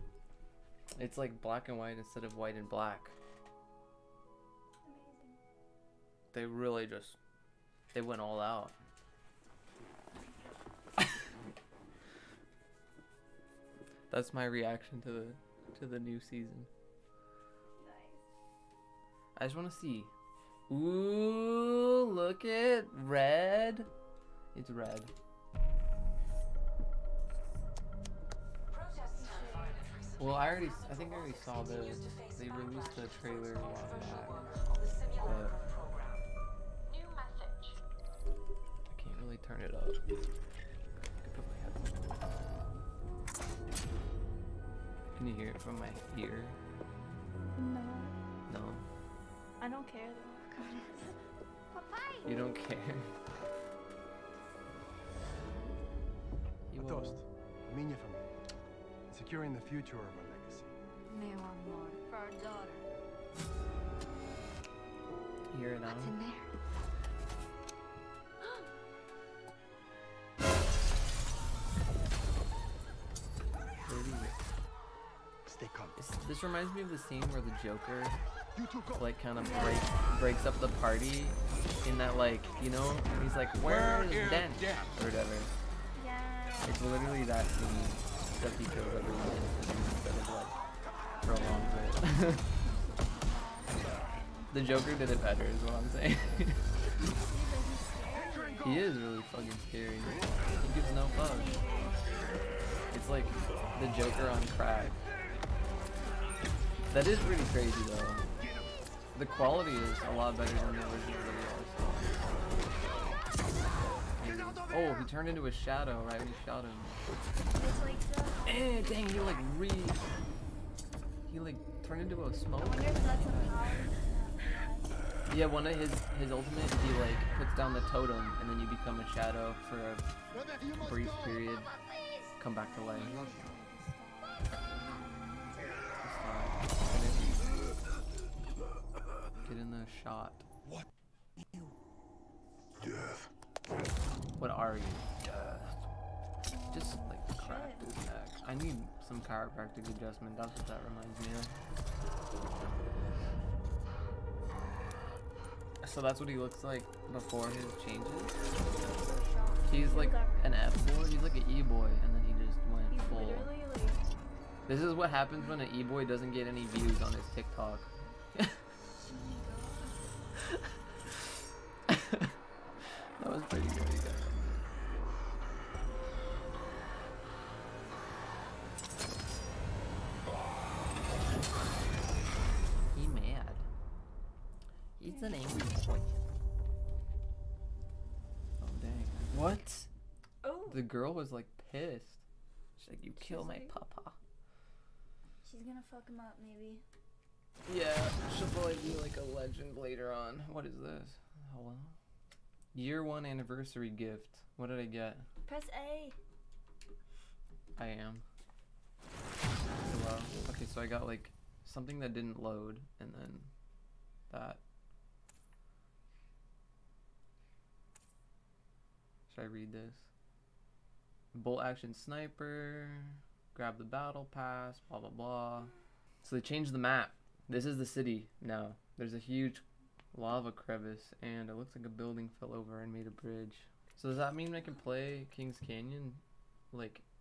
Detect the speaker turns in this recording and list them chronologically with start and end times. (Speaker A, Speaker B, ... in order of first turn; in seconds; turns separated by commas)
Speaker A: 1.0-3.1, Speaker B: 4.8-5.4, Speaker A: 6.3-7.2, Speaker A: 7.9-8.7, Speaker A: 14.1-16.7, Speaker B: 17.8-18.2, Speaker A: 19.4-20.1, Speaker A: 20.7-23.9, Speaker A: 24.5-25.1, Speaker B: 29.2-29.7, Speaker A: 30.2-34.5, Speaker A: 35.2-35.6, Speaker A: 38.9-40.0, Speaker A: 41.2-42.2, Speaker A: 45.1-46.6, Speaker B: 47.5-48.1, Speaker A: 48.5-48.9, Speaker B: 49.6-51.1, Speaker B: 51.8-52.3, Speaker A: 52.2-53.1, Speaker A: 56.7-57.2, Speaker C: 56.8-58.2, Speaker C: 59.1-60.7, Speaker D: 61.1-62.8, Speaker A: 65.5-66.2, Speaker D: 65.9-66.5, Speaker A: 73.8-74.3, Speaker C: 75.5-75.9, Speaker A: 76.0-78.2, Speaker A: 79.0-85.5, Speaker B: 79.4-80.2, Speaker B: 85.9-86.8, Speaker A: 86.6-90.5, Speaker A: 91.2-92.5, Speaker B: 92.6-94.5, Speaker A: 94.5-96.6, Speaker B: 97.2-98.9, Speaker A: 98.6-101.6, Speaker B: 101.0-102.0, Speaker A: 102.9-105.0, Speaker A: 106.9-108.2, Speaker A: 109.1-112.8, Speaker A: 114.2-117.0, Speaker B: 117.5-119.3, Speaker A: 118.4-120.0, Speaker A: 121.3-123.6, Speaker B: 122.5-125.0, Speaker A: 125.3-130.1, Speaker A: 130.7-131.7, Speaker A: 132.4-133.2, Speaker B: 132.6-135.8, Speaker A: 136.0-137.6, Speaker A: 139.4-140.4, Speaker A: 144.4-145.7, Speaker B: 146.5-147.9, Speaker A: 146.7-151.5, Speaker A: 155.8-158.4, Speaker A: 159.7-163.5, Speaker B: 159.7-160.6, Speaker B: 162.9-164.0, Speaker A: 164.7-168.6, Speaker B: 169.0-170.0, Speaker A: 171.9-172.3, Speaker A: 173.2-174.6, Speaker A: 182.9-183.6, Speaker A: 185.0-186.1, Speaker B: 185.0-185.5, Speaker A: 188.6-189.9, Speaker B: 190.4-190.8, Speaker A: 190.7-192.2, Speaker A: 192.8-194.2, Speaker B: 193.2-193.7, Speaker B: 195.4-196.8, Speaker A: 197.7-201.9, Speaker A: 202.7-205.2, Speaker B: 205.4-206.2, Speaker A: 207.8-208.2, Speaker A: 209.8-213.5, Speaker A: 214.3-214.6, Speaker A: 219.3-220.1, Speaker A: 221.3-225.7, Speaker A: 226.2-237.0